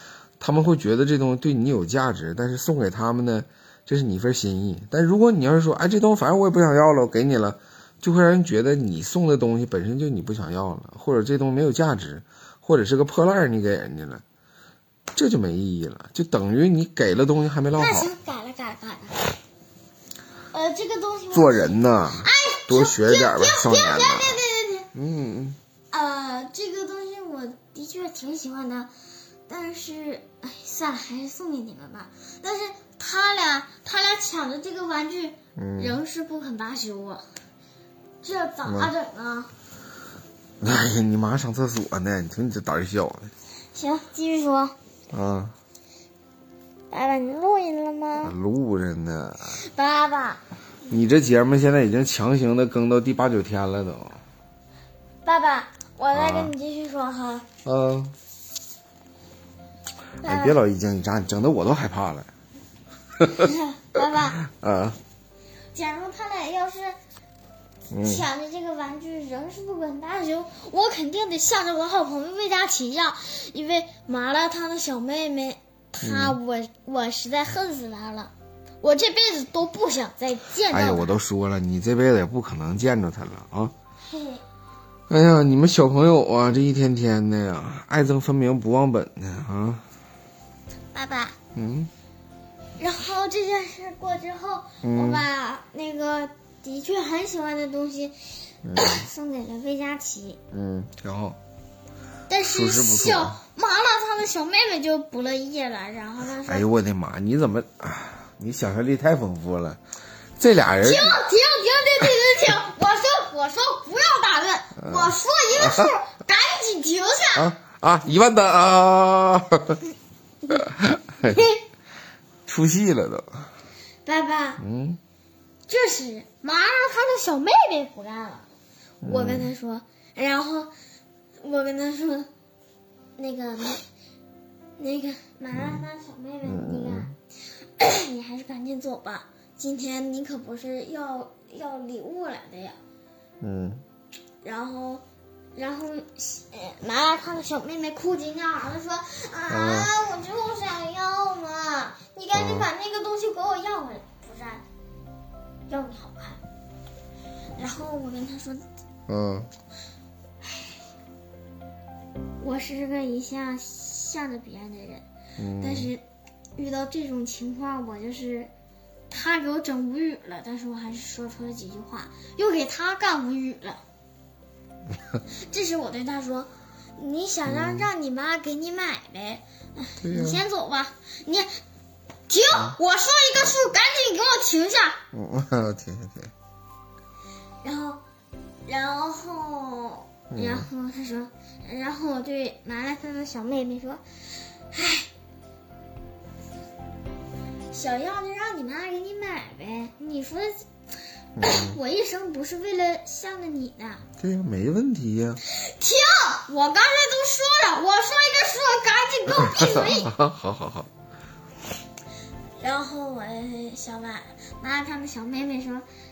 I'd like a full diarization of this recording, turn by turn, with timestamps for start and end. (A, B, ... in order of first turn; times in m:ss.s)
0:00.4-0:14.2 A
0:15.1-0:18.1 A
0:17.8-0:19.4 B
0:20.5-0:24.9 B
0:21.3-0:24.4 A
0:24.9-0:25.6 A
0:25.9-0:28.9 B
0:29.5-0:37.2 B
0:35.6-0:36.0 A
0:38.2-0:39.5 B
0:38.6-0:38.9 A
0:40.6-0:43.3 A
0:43.7-0:44.8 B
0:45.1-0:45.5 A
0:46.9-0:48.3 B
0:48.2-0:49.6 A
0:49.6-0:50.4 B
0:50.9-0:54.2 A
0:55.2-0:57.5 B
0:56.1-0:56.5 A
0:57.6-0:58.1 A
1:00.2-1:00.6 B
1:00.2-1:02.3 A
1:03.2-1:03.5 A
1:03.3-1:04.4 B
1:04.4-1:05.0 A
1:05.7-1:07.0 B
1:07.9-1:08.2 A
1:08.0-1:21.2 B
1:16.0-1:16.4 A
1:20.7-1:23.7 A
1:24.0-1:24.4 B
1:25.1-1:29.8 A
1:30.9-1:31.4 B
1:31.5-1:31.9 A
1:32.8-1:40.4 B
1:34.8-1:35.2 A
1:38.6-1:39.0 A
1:40.5-1:41.4 A
1:42.3-1:46.7 B
1:42.4-1:43.4 A
1:46.4-1:49.8 A
1:50.4-1:51.2 A
1:50.8-1:57.5 B
1:54.8-1:55.9 A
1:57.3-1:59.8 A
2:00.5-2:01.4 A
2:01.2-2:01.6 B
2:02.4-2:03.5 A
2:04.0-2:04.6 B
2:04.6-2:05.0 A
2:05.7-2:08.5 B
2:09.0-2:09.5 A
2:09.0-2:10.7 B
2:11.4-2:12.3 B
2:13.2-2:13.8 B
2:14.8-2:17.1 B
2:16.4-2:17.1 A
2:17.8-2:22.8 B
2:23.4-2:23.8 A
2:24.4-2:25.0 B
2:25.5-2:34.6 B
2:29.5-2:29.9 A
2:32.3-2:32.7 A
2:35.7-2:36.4 B
2:37.6-2:38.6 B
2:39.1-2:39.5 A
2:42.4-2:45.0 B
2:45.4-2:45.9 A
2:45.6-2:46.0 B
2:46.6-2:48.5 B
2:49.1-2:53.8 B
2:55.5-3:01.6 B
2:57.4-2:57.9 A
3:00.0-3:00.4 A
3:02.3-3:05.0 B
3:05.1-3:06.3 A
3:07.6-3:08.0 B
3:08.6-3:15.1 B
3:10.3-3:10.7 A
3:17.7-3:20.6 B
3:21.4-3:21.8 A
3:21.4-3:24.0 B
3:24.2-3:25.4 A
3:25.4-3:30.2 B
3:29.4-3:30.9 A
3:32.6-3:35.8 B